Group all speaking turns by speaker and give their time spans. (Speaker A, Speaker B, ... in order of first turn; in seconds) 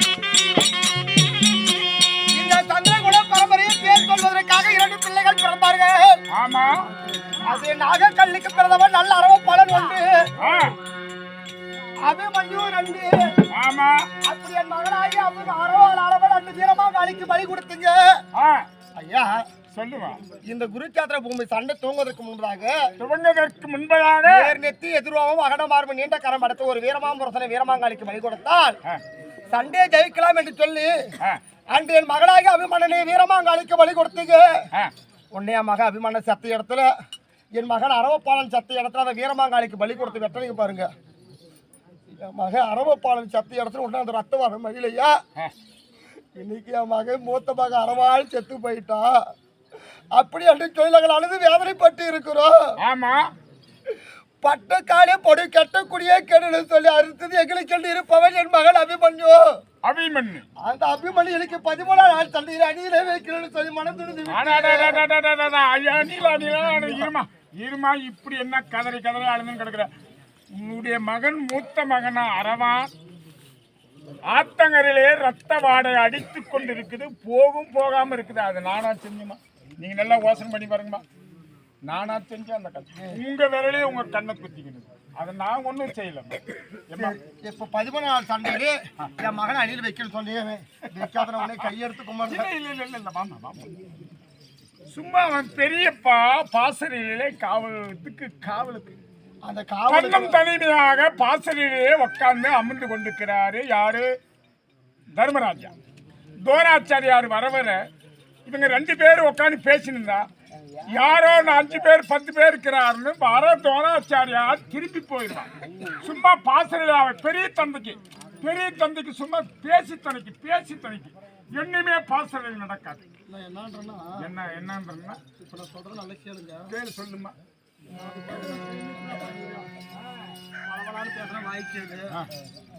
Speaker A: 2.3-6.2, 7.4-10.3, 12.0-13.3, 14.2-18.2, 18.9-19.4, 20.4-22.8, 24.2-28.8, 29.5-31.1, 31.7-34.5, 35.3-36.9, 37.5-40.9, 42.2-45.2, 46.4-49.2, 50.1-52.5, 54.4-59.5, 60.6-65.0, 86.9-92.5, 99.5-100.4, 123.3-124.2, 125.4-126.7, 127.9-129.7, 130.6-132.2
Speaker B: 6.3-6.8, 10.4-10.7, 13.5-14.1, 18.3-18.6, 19.7-20.2, 23.0-24.5, 52.8-53.3, 59.8-60.4, 64.3-69.9, 70.5-72.9, 74.3-81.0, 81.8-86.4, 86.9-87.2, 91.0-91.6, 92.3-93.7, 94.9-99.0, 99.9-104.1, 105.2-105.7, 106.4-107.8, 108.5-110.3, 110.9-123.0, 124.2-125.2, 126.7-127.3